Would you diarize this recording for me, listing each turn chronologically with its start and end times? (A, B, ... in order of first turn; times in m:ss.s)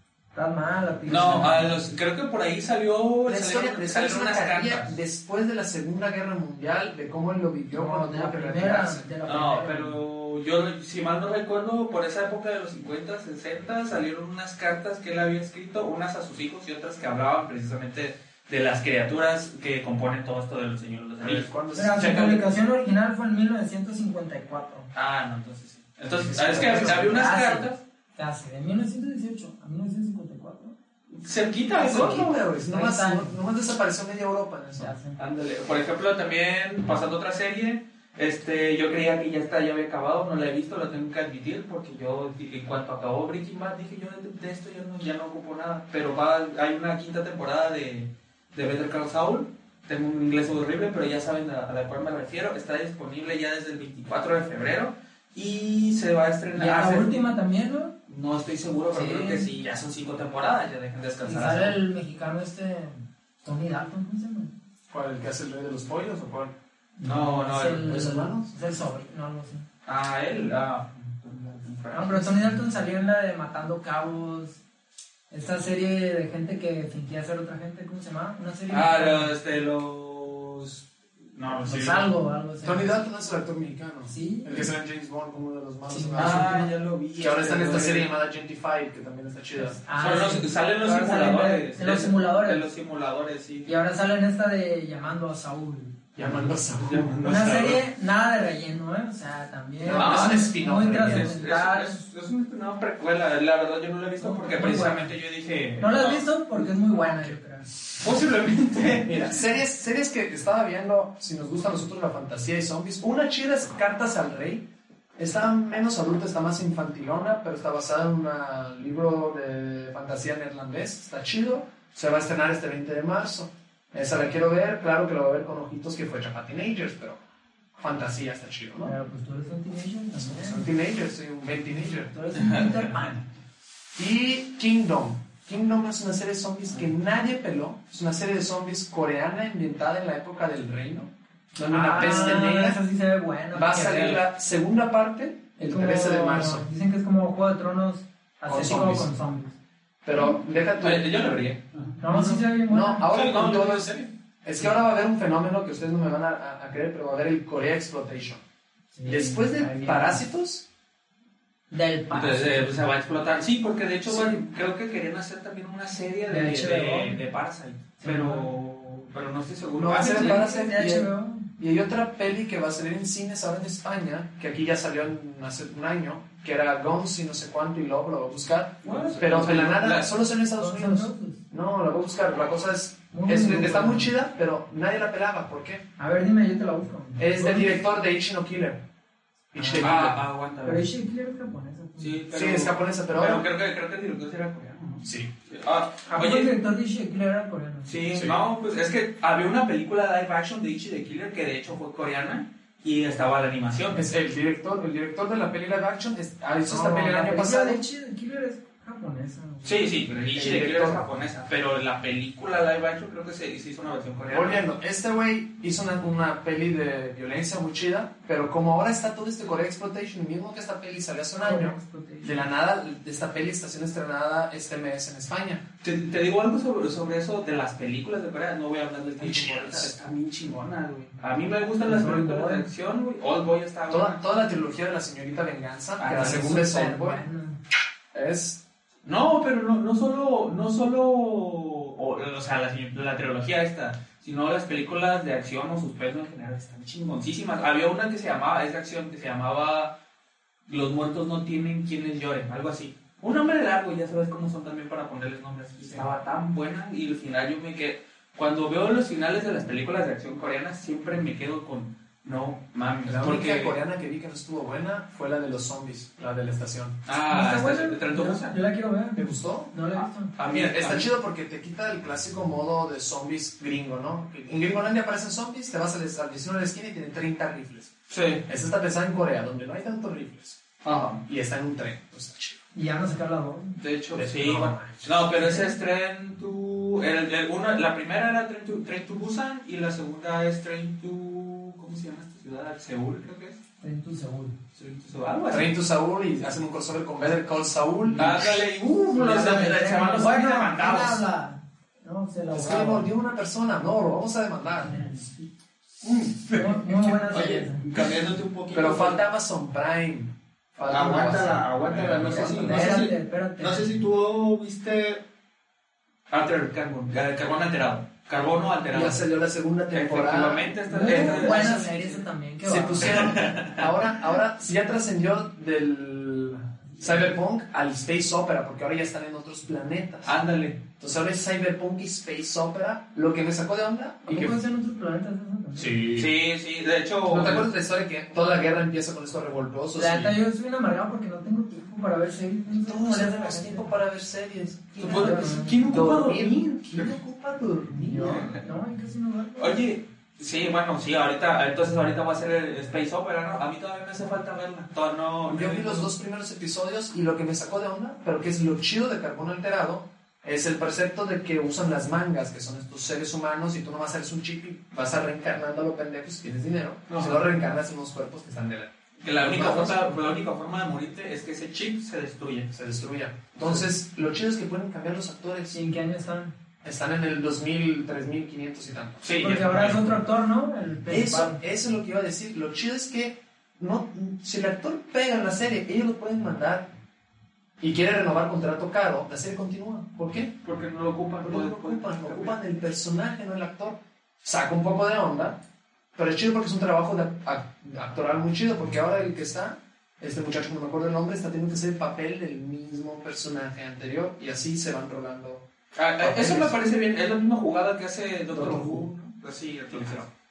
0:00.4-0:01.8 A
0:01.1-0:05.0 B
0:03.3-0:09.1 C
0:07.7-0:10.0 A
0:09.2-0:22.4 B
0:21.2-0:22.3 C
0:21.8-0:24.9 A
0:24.9-0:27.8 B
0:26.1-0:27.2 C
0:26.5-0:30.8 A
0:31.1-0:32.3 B
0:31.8-0:33.4 A
0:31.8-0:34.9 C
0:34.8-0:35.2 A
0:35.2-0:57.2 B
0:56.6-0:57.9 A
0:58.1-1:01.8 B
0:58.9-0:59.5 A
1:01.2-1:04.5 A
1:04.9-1:06.5 C
1:07.0-1:09.7 A
1:07.0-1:07.8 B
1:07.8-1:08.5 C
1:09.9-1:12.6 B
1:11.9-1:14.6 A
1:15.3-1:19.3 A
1:18.7-1:22.1 B
1:21.6-1:23.0 A
1:22.6-1:29.8 C
1:24.1-1:24.7 A
1:25.9-1:26.7 A
1:26.2-1:28.1 B
1:29.6-1:32.6 A
1:30.0-1:33.7 B
1:33.7-1:36.0 A
1:36.2-1:37.1 C
1:36.3-1:37.8 B
1:37.2-1:42.0 A
1:39.8-1:41.4 C
1:39.9-1:46.6 B
1:44.2-1:45.0 A
1:45.8-1:47.7 A
1:47.9-1:49.3 B
1:49.0-1:54.6 C
1:55.2-2:07.2 C
2:07.8-2:08.9 C
2:08.8-2:10.7 A
2:10.2-2:12.1 C
2:11.9-2:13.2 A
2:12.3-2:13.2 B
2:14.0-2:22.8 C
2:21.7-2:24.2 A
2:23.5-2:26.7 C
2:25.6-2:29.6 A
2:28.5-2:29.1 C
2:30.0-2:31.2 C
2:30.8-2:32.4 B
2:32.0-2:33.1 A
2:32.7-2:38.4 C
2:33.1-2:34.1 B
2:38.9-2:40.2 A
2:39.1-2:40.6 C
2:41.7-2:42.9 A
2:42.1-2:50.5 B
2:44.1-2:44.4 A
2:46.3-2:47.2 A
2:48.0-2:48.5 A
2:49.8-3:05.8 C
2:49.9-2:51.5 A
2:58.8-3:00.1 B
2:58.9-2:59.2 A
3:00.6-3:01.4 A
3:03.1-3:04.1 A
3:06.0-3:07.7 A
3:07.2-3:08.8 C
3:09.5-3:10.2 C
3:09.6-3:10.0 A
3:09.8-3:10.9 B
3:10.6-3:12.2 A
3:12.0-3:16.5 B
3:12.3-3:13.4 C
3:15.0-3:15.3 C
3:16.1-3:17.9 A
3:17.9-3:24.1 B
3:18.1-3:18.4 C
3:23.9-3:27.8 C
3:26.7-3:29.9 A
3:29.6-3:34.6 B
3:30.3-3:31.0 C
3:34.3-3:45.6 C
3:41.4-3:42.4 A
3:45.8-3:54.2 B
3:49.2-3:49.9 C
3:51.8-3:52.7 A
3:53.9-3:57.2 C
3:56.0-3:56.6 B
3:56.0-3:57.6 A
3:58.1-3:58.6 C
3:59.0-4:09.9 B
4:10.7-4:23.8 B
4:23.0-4:27.0 C
4:27.1-4:28.6 B
4:27.3-4:30.4 A
4:29.2-4:29.7 C
4:30.4-4:31.1 B
4:30.5-4:37.9 C
4:38.1-4:38.4 B
4:38.5-4:42.6 C
4:40.8-4:41.2 B
4:42.7-4:43.8 A
4:43.8-4:53.6 B
4:44.1-4:45.2 C
4:45.4-4:45.7 A
4:53.8-4:54.6 A
4:54.8-4:55.8 B
4:55.5-4:58.6 C
4:58.1-5:01.2 B
4:59.1-5:03.1 A
5:02.5-5:05.1 C
5:04.8-5:05.4 A
5:06.0-5:09.2 B
5:06.5-5:07.9 A
5:08.7-5:13.0 C
5:10.9-5:15.2 B
5:12.6-5:14.0 A
5:16.3-5:19.2 B
5:18.9-5:21.9 C
5:19.9-5:22.2 B
5:20.9-5:23.3 A
5:22.6-5:30.4 C
5:23.0-5:23.9 B
5:30.2-5:30.8 B
5:31.0-5:34.6 C
5:34.3-5:36.0 A
5:35.8-5:36.3 C
5:35.9-5:37.7 B
5:37.2-5:40.3 C
5:40.0-5:44.0 A
5:42.7-5:48.5 C
5:45.0-5:45.9 A
5:45.0-5:47.1 B
5:48.0-5:49.9 A
5:48.2-5:48.6 B
5:49.6-5:56.1 B
5:55.5-6:10.1 C
6:07.1-6:07.5 B
6:09.2-6:12.7 B
6:12.7-6:15.8 C
6:15.7-6:16.5 A
6:16.8-6:19.2 C
6:19.2-6:20.1 B
6:19.4-6:21.6 A
6:21.1-6:26.9 C
6:27.8-6:30.5 C
6:30.6-6:32.6 B
6:31.4-6:35.6 C
6:36.2-6:45.6 C
6:46.0-6:50.3 B
6:46.2-6:46.8 C
6:48.5-6:49.1 C
6:50.0-6:50.2 C